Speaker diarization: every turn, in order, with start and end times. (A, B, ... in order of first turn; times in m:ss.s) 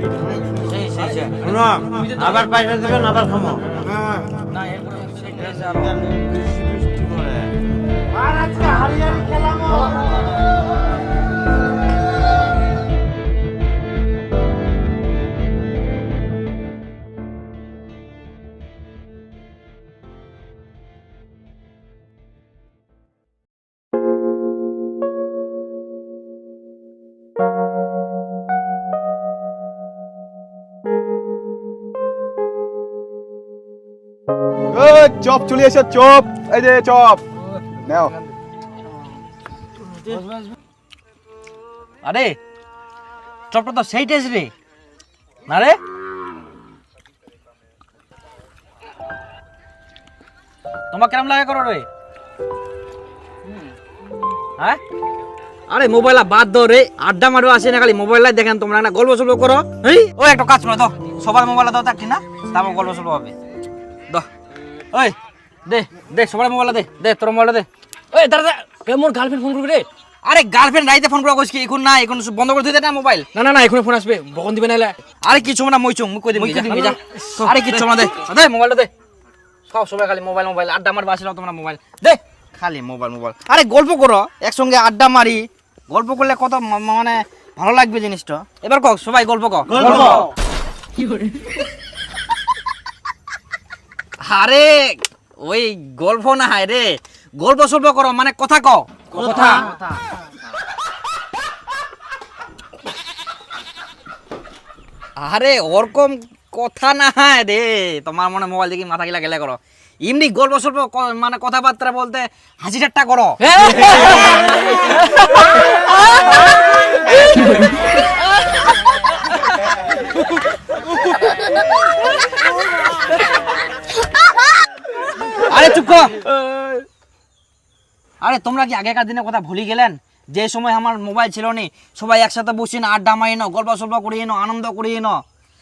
0:00.5-0:01.5 A
0:01.4-0:04.4 B
0:02.0-0:02.4 C
0:04.5-0:06.0 A
0:05.7-0:10.4 B
0:34.7-0:37.2 D
0:37.8-0:38.2 D
0:42.0-0:42.4 A
0:43.5-0:44.5 A
0:45.5-0:45.8 A
0:50.9-0:51.9 A
0:55.7-1:03.3 A
1:05.7-1:07.7 A
1:08.1-1:09.9 C
1:10.2-1:13.3 A
1:13.3-1:15.0 C
1:15.2-1:18.9 A
1:16.4-1:17.9 C
1:19.7-1:30.3 A
1:29.7-1:30.3 B
1:34.2-1:39.7 A
1:39.2-1:39.7 C
1:45.2-1:54.4 A
1:53.4-1:56.5 C
1:57.1-1:57.7 C
2:05.5-2:06.2 A
2:08.2-2:15.2 A